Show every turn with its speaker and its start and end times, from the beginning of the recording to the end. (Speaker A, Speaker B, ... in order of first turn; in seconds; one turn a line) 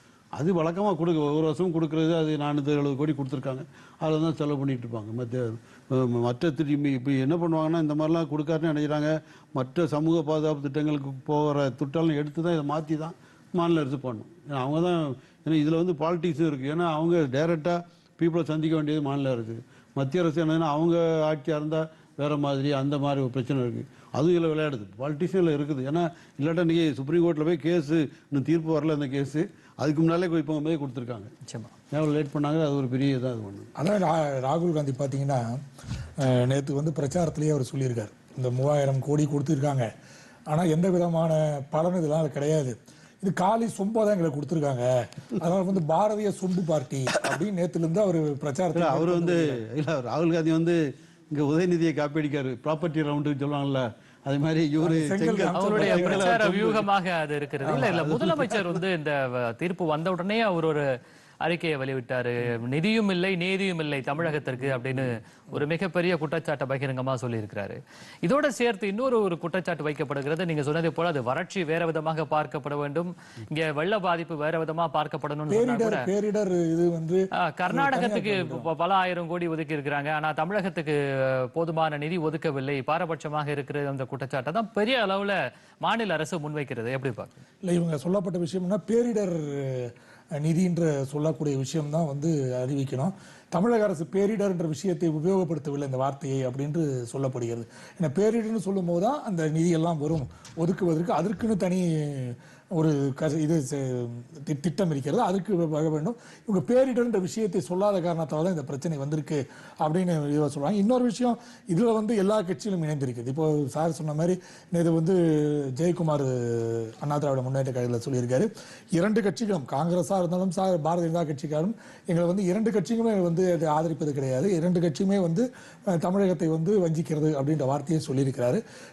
Speaker A: 0.3-31.3
Speaker B: 31.4-31.7
Speaker A: 31.9-33.7
Speaker C: 33.8-35.6
Speaker C: 36.2-39.9
Speaker C: 40.5-49.6
Speaker A: 48.8-56.9
Speaker C: 54.8-56.3
Speaker B: 55.5-60.9
Speaker A: 57.7-58.8
Speaker B: 61.4-76.1
Speaker C: 75.5-78.7
Speaker B: 77.4-87.4
Speaker C: 87.6-128.6